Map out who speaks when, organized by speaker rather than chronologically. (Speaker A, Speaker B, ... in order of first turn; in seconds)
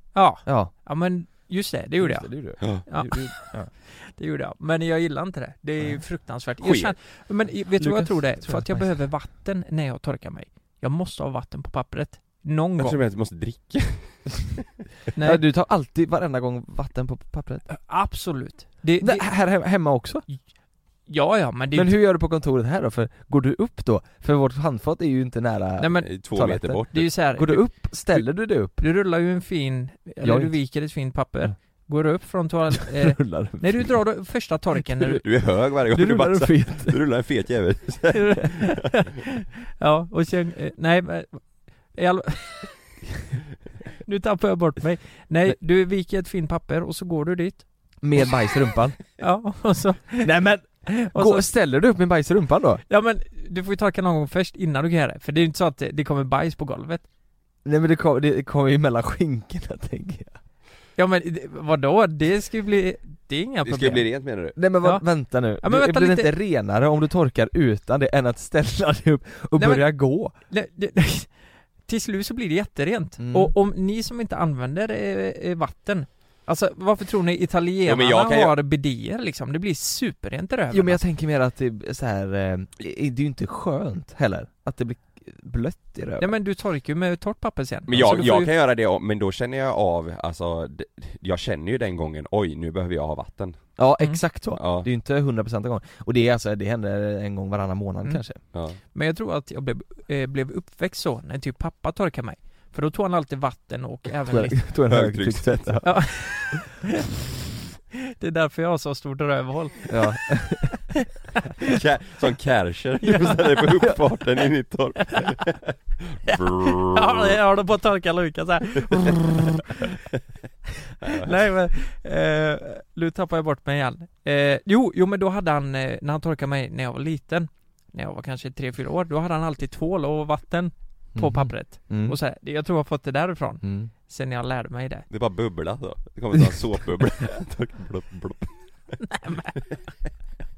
Speaker A: 0.1-13.0, 15.1-15.4, 17.7-19.3, 21.1-21.9, 25.8-26.1, 26.9-27.7, 28.8-35.2, 38.1-42.8, 44.0-47.6, 49.2-51.5, 52.9-57.0, 61.0-64.1, 65.6-66.3, 69.6-81.0, 86.2-88.5, 98.9-104.6, 105.8-107.0, 108.0-110.4, 113.0-113.9, 115.1-115.3, 116.2-119.9, 121.0-135.1, 139.1-139.5
Speaker B: 0.3-0.7, 2.0-3.7, 7.8-8.9, 15.2-17.6, 19.0-20.2, 21.7-28.8, 30.2-30.7, 32.9-33.9, 35.9-37.0, 48.0-49.0, 50.2-52.8, 57.6-60.4, 64.5-70.3, 73.2-73.5, 80.7-86.3, 93.8-98.4, 104.2-106.5, 109.9-110.8, 131.1-132.2, 133.6-133.9
Speaker C: 6.6-6.9, 12.8-14.8, 26.0-27.1, 35.1-38.8, 63.6-64.5, 77.8-78.5, 87.9-93.7, 94.5-94.9, 98.5-98.8, 104.9-105.9, 111.6-117.3, 121.0-121.3, 135.1-139.0